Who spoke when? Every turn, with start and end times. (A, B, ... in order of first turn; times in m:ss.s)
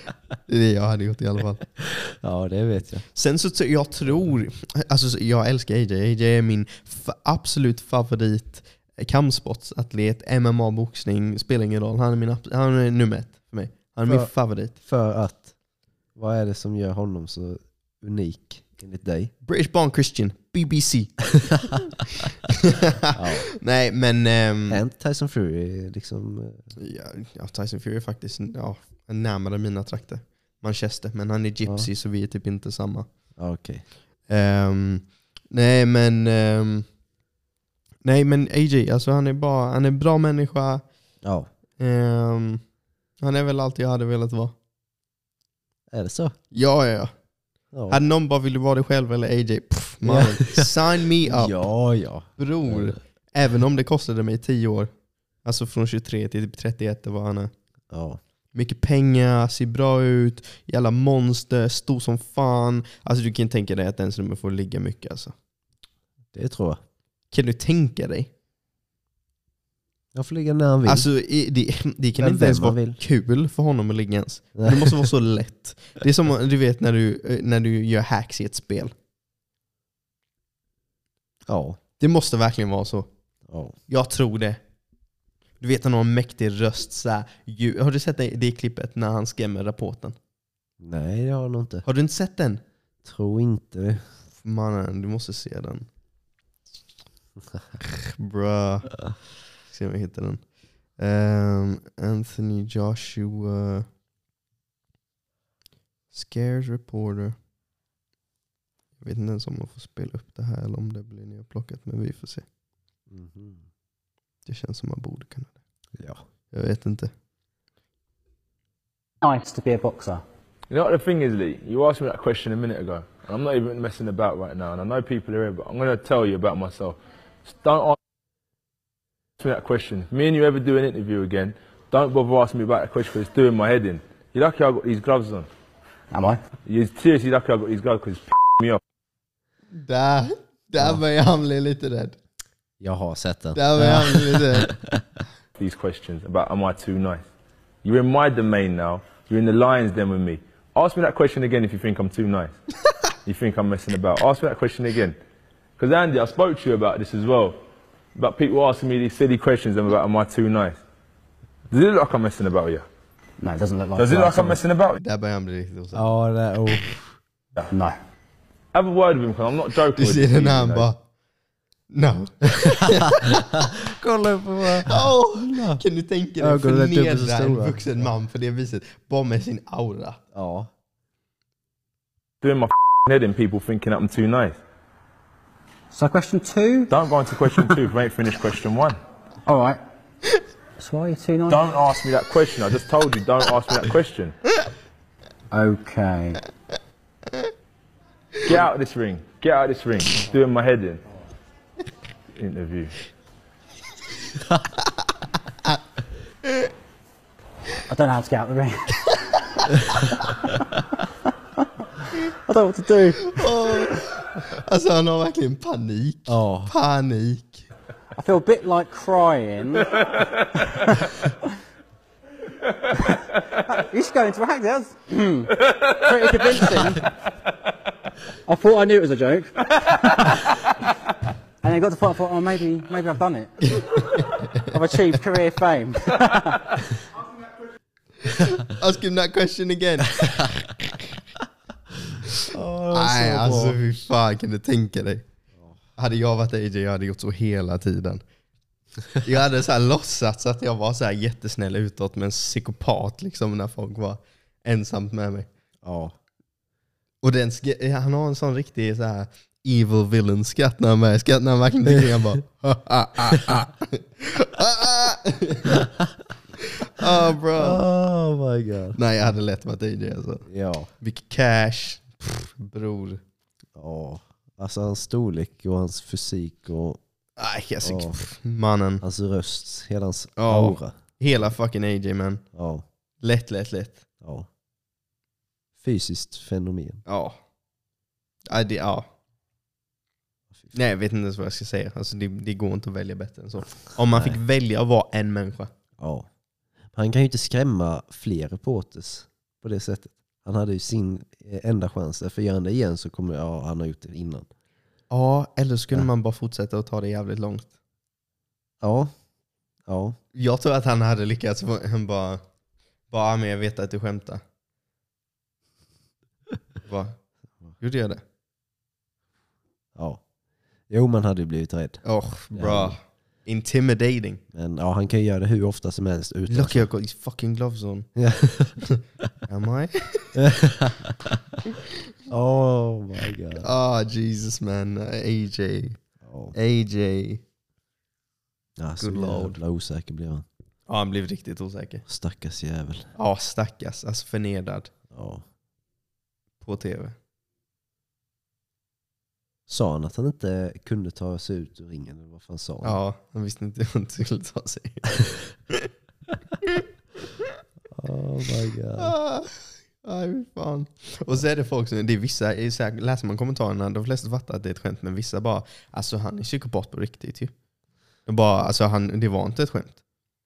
0:00.5-0:01.6 A
0:01.9-0:03.0 B
0:03.1-0:14.8 A
0:14.0-0:15.5 B
0:16.2-0:19.3 B
0:19.4-0:21.3 A
0:22.6-0:24.8 A
0:23.1-0:23.5 B
0:24.7-0:26.6 B
0:26.8-0:33.1 A
0:33.4-0:33.8 B
0:34.3-0:36.8 A
0:38.0-0:40.8 A
0:41.2-0:41.5 B
0:41.8-0:42.6 A
0:43.2-0:44.5 A
0:45.9-0:46.3 B
0:46.5-0:47.1 A
0:47.7-0:48.0 B
0:47.9-0:51.7 A
0:50.0-0:53.0 B
0:52.4-0:54.9 A
0:55.4-0:57.5 A
0:57.9-0:58.2 B
0:58.5-1:05.3 A
1:06.3-1:06.8 B
1:07.3-1:08.3 A
1:10.1-1:11.1 B
1:10.8-1:18.9 A
1:12.2-1:13.0 B
1:14.6-1:15.0 B
1:21.5-1:21.8 B
1:22.0-1:23.1 A
1:23.5-1:23.8 B
1:23.9-1:24.6 A
1:25.6-1:30.2 A
1:30.8-1:31.8 B
1:31.8-1:32.6 A
1:33.0-1:34.0 B
1:34.4-1:35.8 A
1:37.8-1:39.0 A
1:39.7-1:40.4 A
1:41.0-1:43.8 A
1:46.1-1:47.4 A
1:49.0-1:52.4 A
1:53.1-1:53.6 B
1:54.4-1:55.5 A
1:56.5-1:57.1 A
1:59.2-2:00.2 C
2:00.7-2:08.0 D
2:09.4-2:15.5 D
2:16.1-2:16.4 C
2:16.6-2:18.8 D
2:19.7-2:22.2 A
2:22.8-2:25.0 B
2:23.5-2:24.7 A
2:25.6-2:27.2 D
2:27.8-2:32.5 D
2:33.2-2:35.2 D
2:35.8-2:37.6 D
2:38.1-2:40.8 D
2:41.7-2:42.8 D
2:43.4-2:44.6 C
2:44.0-2:45.0 D
2:45.0-2:46.1 A
2:45.9-2:46.9 B
2:47.7-2:48.0 C
2:48.7-2:50.9 D
2:49.9-2:51.0 A
2:51.9-2:53.5 A
2:52.9-2:55.8 B
2:54.8-3:00.2 A
2:56.4-2:57.8 B
3:00.3-3:00.7 B
3:02.4-3:04.6 D
3:05.9-3:06.9 C
3:06.9-3:09.0 D
3:09.4-3:09.8 C
3:10.8-3:11.7 C
3:11.5-3:14.3 D
3:15.5-3:16.4 C
3:18.4-3:21.0 D
3:22.4-3:22.9 D
3:27.9-3:28.9 C
3:32.4-3:33.5 C
3:33.3-3:37.6 A
3:36.3-3:36.7 B
3:38.2-3:40.0 C
3:40.6-3:41.1 C
3:43.7-3:47.1 C
3:48.4-3:50.4 C
3:51.6-3:53.8 C
3:54.6-3:56.7 C
3:58.2-4:01.1 A
4:02.5-4:03.8 B
4:02.9-4:05.2 A
4:06.0-4:08.2 A
4:09.2-4:15.5 A
4:15.8-4:16.1 B
4:17.2-4:25.9 A
4:22.0-4:22.2 B
4:23.3-4:23.6 B
4:26.6-4:27.8 A
4:27.5-4:29.0 B
4:28.9-4:30.4 A
4:30.4-4:30.9 B
4:31.0-4:33.2 A
4:33.8-4:37.0 B
4:37.4-4:39.0 A
4:37.8-4:38.2 B
4:39.0-4:40.9 B
4:40.4-4:42.4 A
4:42.5-4:42.8 B
4:43.2-4:44.0 A
4:44.2-4:44.5 B
4:45.8-4:47.0 B
4:47.1-4:47.4 A
4:48.5-4:49.1 A
4:50.7-4:55.7 A
4:54.1-4:54.4 B
4:56.0-4:56.3 B
4:56.9-5:04.5 B
5:05.1-5:07.7 A
5:08.8-5:09.1 B
5:09.9-5:10.2 B
5:10.3-5:12.4 A
5:13.1-5:14.4 A
5:16.8-5:17.2 A
5:17.8-5:18.2 A
5:20.0-5:20.2 B
5:20.9-5:23.0 B
5:22.0-5:24.4 A
5:24.5-5:26.9 B
5:26.5-5:28.1 A
5:28.2-5:28.8 B
5:28.9-5:30.4 A
5:30.4-5:31.4 B
5:32.3-5:33.7 B
5:33.6-5:36.0 A
5:36.2-5:36.5 B
5:36.5-5:37.4 A
5:38.8-5:40.4 B
5:39.0-5:39.6 A
5:40.9-5:42.0 A
5:42.0-5:43.1 B
5:43.2-5:44.9 A
5:45.1-5:45.4 B
5:46.6-5:47.1 A
5:49.7-5:53.0 B
5:52.8-5:55.9 A
5:57.9-5:59.1 B
5:59.0-6:07.5 A
6:08.2-6:10.0 A